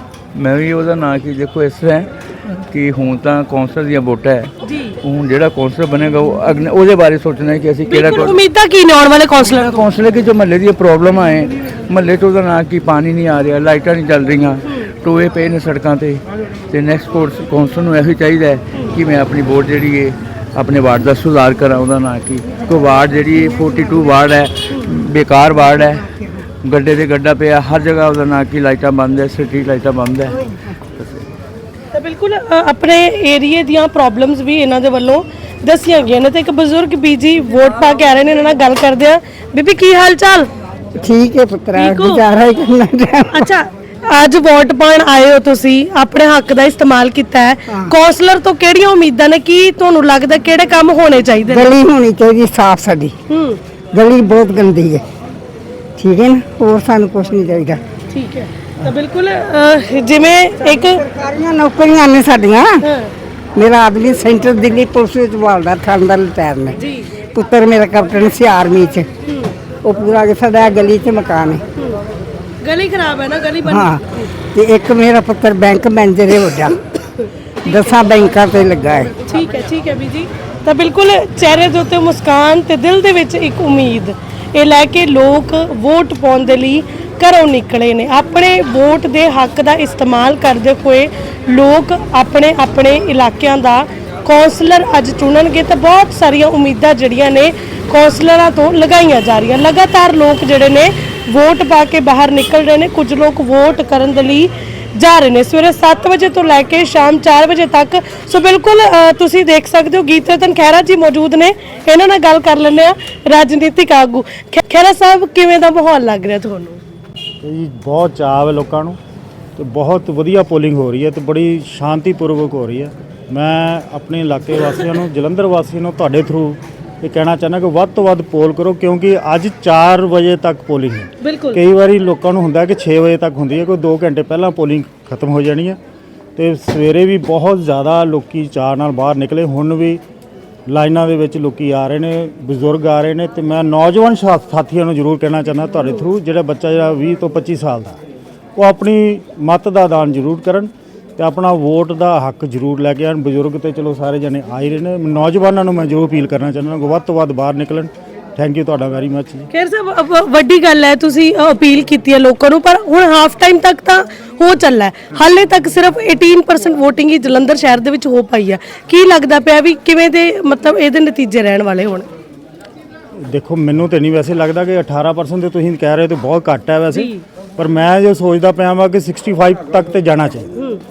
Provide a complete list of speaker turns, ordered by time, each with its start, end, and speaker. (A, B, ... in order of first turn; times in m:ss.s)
0:00.3-0:02.1 A
0:02.7-0:08.3 A
0:04.6-0:05.0 B
0:07.9-0:09.8 B
0:09.5-0:26.0 A
0:26.6-0:31.2 A
0:31.9-0:40.5 B
0:41.0-0:43.5 C
0:41.7-0:42.2 B
0:43.3-0:51.7 B
0:51.5-0:53.1 C
0:53.3-0:53.6 B
0:53.9-0:55.0 C
0:56.0-0:57.8 C
0:58.1-1:01.0 B
1:01.0-1:02.8 C
1:02.8-1:03.1 B
1:03.6-1:06.7 C
1:06.8-1:07.1 B
1:07.3-1:09.0 C
1:09.3-1:09.5 B
1:09.8-1:11.6 C
1:12.6-1:14.3 B
1:13.7-1:14.0 C
1:14.5-1:16.7 C
1:17.6-1:18.0 B
1:17.6-1:19.1 C
1:19.3-1:56.8 B
1:57.4-1:59.0 D
1:59.6-2:15.8 D
2:11.2-2:11.6 B
2:16.4-2:20.0 D
2:20.7-2:28.0 D
2:28.6-2:39.5 D
2:39.5-2:52.1 B
2:53.2-3:00.5 D
2:56.9-2:57.2 B